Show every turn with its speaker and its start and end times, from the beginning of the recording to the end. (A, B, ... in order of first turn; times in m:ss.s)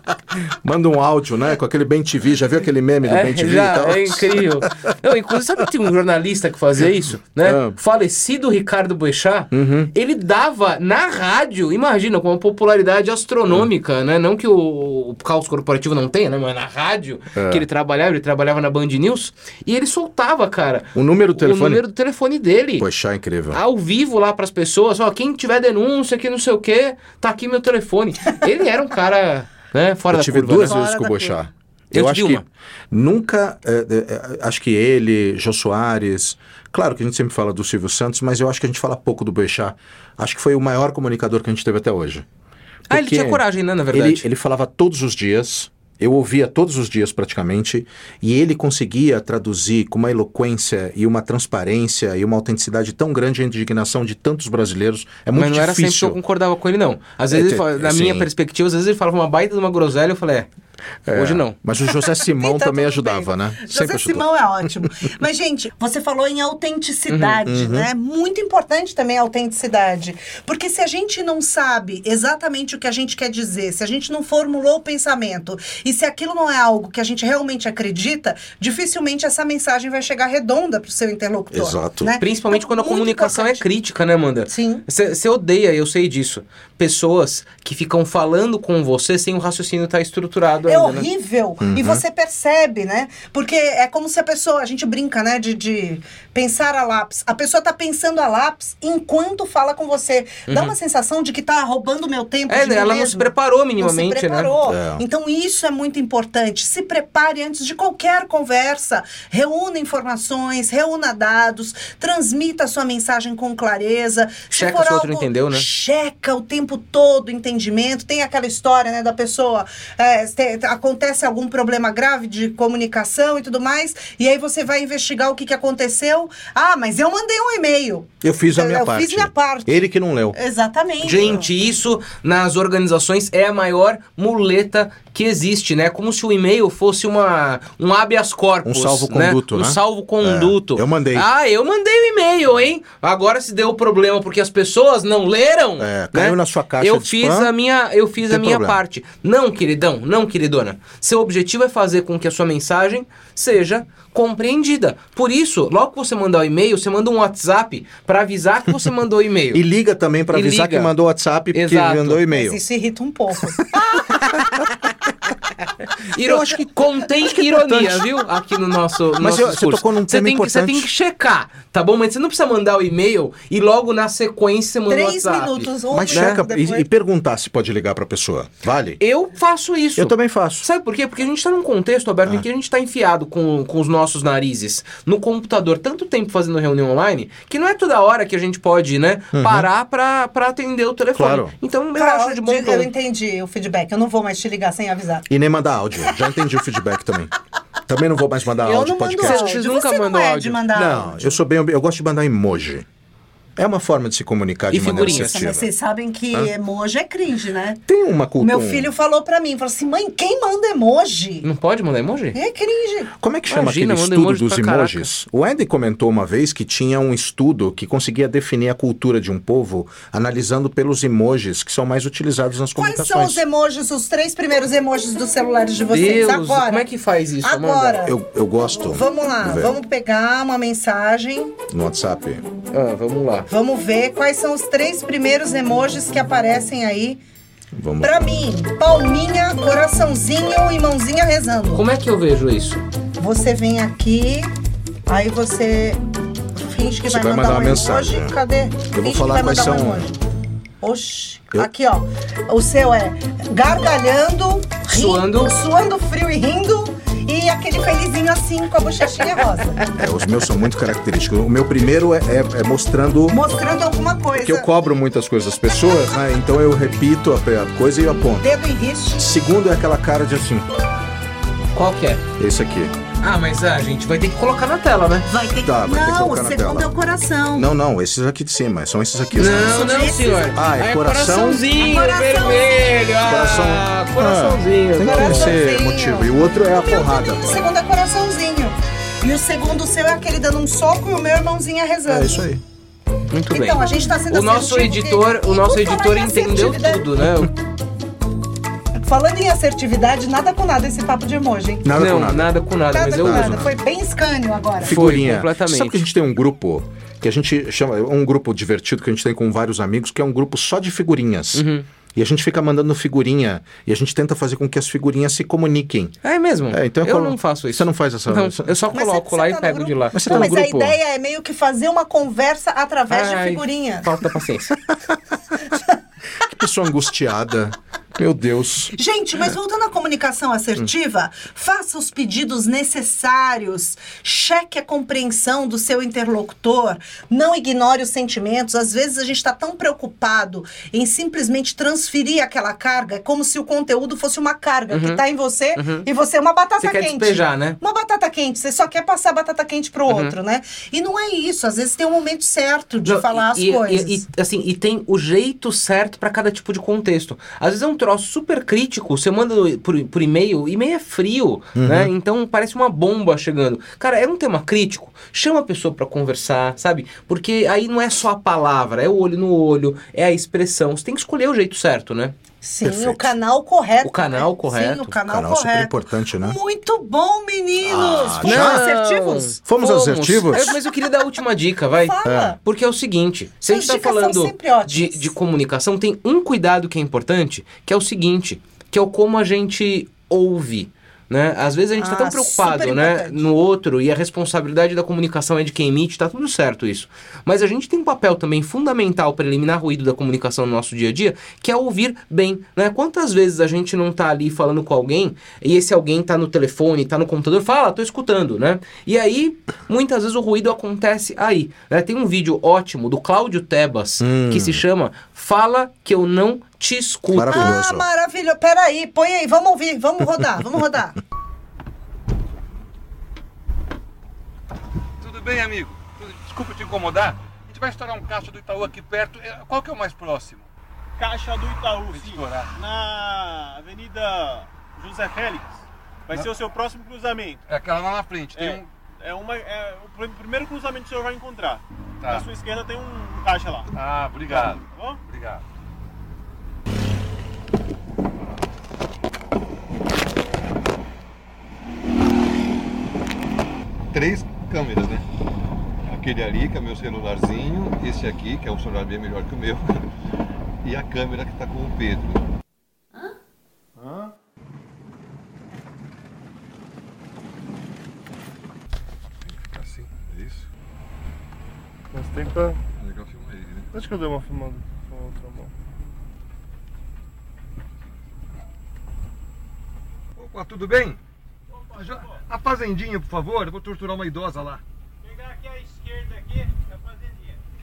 0:00.6-0:04.7 A
0:03.0-0:22.8 B
0:07.4-0:07.8 A
0:09.5-0:09.9 A
0:17.3-0:17.6 A
0:20.9-0:21.8 A
0:22.8-0:23.6 A
0:23.5-0:30.8 B
0:30.1-0:42.2 A
0:30.6-0:31.4 C
0:31.9-0:32.4 B
0:42.9-0:44.2 B
0:42.9-0:56.2 A
0:55.3-1:00.5 B
0:57.3-0:58.3 A
1:01.1-1:04.2 A
1:01.1-1:01.6 B
1:02.2-1:23.6 C
1:07.1-1:07.4 B
1:07.4-1:07.9 A
1:21.5-1:22.1 A
1:22.2-1:31.1 B
1:24.5-1:24.8 C
1:30.6-2:11.5 C
1:31.6-1:32.0 A
1:40.5-1:40.8 B
1:42.5-1:44.6 B
1:44.6-1:45.0 A
1:54.5-1:55.6 B
2:08.2-2:10.4 A
2:11.0-2:39.6 B
2:18.6-2:21.3 A
2:25.8-2:27.5 A
2:28.2-2:28.8 A
2:39.5-2:42.6 A
2:40.3-2:40.9 B
2:41.5-2:42.2 B
2:42.3-2:44.6 C
2:46.1-2:56.4 B
2:46.2-2:46.7 A
2:47.2-2:48.2 A
2:49.2-2:50.9 A
2:54.9-2:56.8 C
2:55.9-2:59.0 A
2:59.0-3:12.9 B
3:00.0-3:00.7 A
3:09.3-3:09.7 A
3:11.1-3:11.5 A
3:11.9-3:15.3 C
3:15.3-3:17.3 A
3:17.9-3:19.6 A
3:18.6-3:21.4 C
3:19.2-3:20.6 B
3:20.7-3:22.8 A
3:23.6-3:25.7 A
3:24.7-3:25.4 B
3:24.9-3:27.8 C
3:27.9-3:28.9 A
3:28.4-3:31.5 C
3:31.4-3:32.4 B
3:32.3-3:33.1 C
3:33.2-3:43.4 A
3:33.5-3:35.1 B
3:42.8-3:46.9 C
3:45.9-3:48.0 B
3:47.4-3:48.2 C
3:48.0-3:49.8 A
3:48.8-3:51.6 C
3:51.7-3:52.4 A
3:52.7-3:53.5 B
3:53.5-3:57.2 C
3:57.7-3:58.1 A
3:58.0-4:01.8 C
4:01.7-4:02.8 B
4:03.2-4:04.5 C
4:05.1-4:06.0 C
4:06.6-4:10.2 C
4:07.0-4:08.3 A
4:08.9-4:10.1 A
4:10.8-4:19.9 C
4:14.9-4:15.5 B
4:20.0-4:23.4 A
4:23.3-4:24.7 C
4:24.3-4:28.4 A
4:28.4-4:29.3 C
4:29.2-4:30.7 A
4:31.7-4:32.2 B
4:32.4-4:32.9 A
4:33.2-4:35.3 B
4:35.3-4:37.7 C
4:35.6-4:36.9 A
4:37.5-4:41.7 A
4:39.3-4:45.6 B
4:39.4-4:40.6 C
4:41.7-4:43.0 C
4:43.2-4:47.6 A
4:45.0-4:52.5 C
4:52.0-4:52.6 A
4:53.3-4:57.5 B
4:53.5-4:57.2 C
4:59.0-5:01.9 C
5:01.8-5:03.7 A
5:01.9-5:03.7 B
5:02.9-5:05.0 C
5:04.8-5:16.2 A
5:04.9-5:06.0 B
5:11.5-5:11.8 B
5:16.2-5:20.9 B
5:16.7-5:18.8 A
5:18.9-5:24.1 C
5:20.1-5:21.0 A
5:23.1-5:24.8 B
5:26.4-5:28.9 A
5:28.9-5:54.2 C
5:44.9-5:45.2 B
5:45.8-5:46.1 B
5:46.8-5:47.8 B
5:50.1-5:50.4 B
5:53.0-6:12.3 B
6:01.8-6:02.1 A
6:12.6-6:19.6 C
6:12.8-6:13.4 A
6:14.0-6:15.1 B
6:15.2-6:16.6 A
6:17.8-6:18.8 A
6:18.4-6:57.8 B
6:19.6-6:20.8 A
6:20.6-6:20.9 C
6:22.0-6:22.6 C
6:22.2-6:22.6 A
6:23.6-6:25.3 C
6:32.0-6:33.5 C
6:54.2-6:54.8 A
6:57.3-6:58.1 A
6:57.4-7:01.2 C
7:05.2-7:10.7 D
7:11.2-7:17.6 E
7:12.1-7:12.7 D
7:17.7-7:18.9 D
7:18.5-7:23.9 E
7:22.2-7:22.5 D
7:23.9-7:25.6 D
7:24.5-7:25.2 E
7:34.1-7:35.2 D
7:36.1-7:40.0 D
7:40.8-7:42.4 D
7:49.4-7:50.6 D
7:52.1-7:52.8 F
7:53.0-7:53.9 D
7:53.9-7:55.7 F
8:00.4-8:01.2 D
8:01.8-8:02.4 E
8:01.9-8:04.8 D
8:05.2-8:07.6 E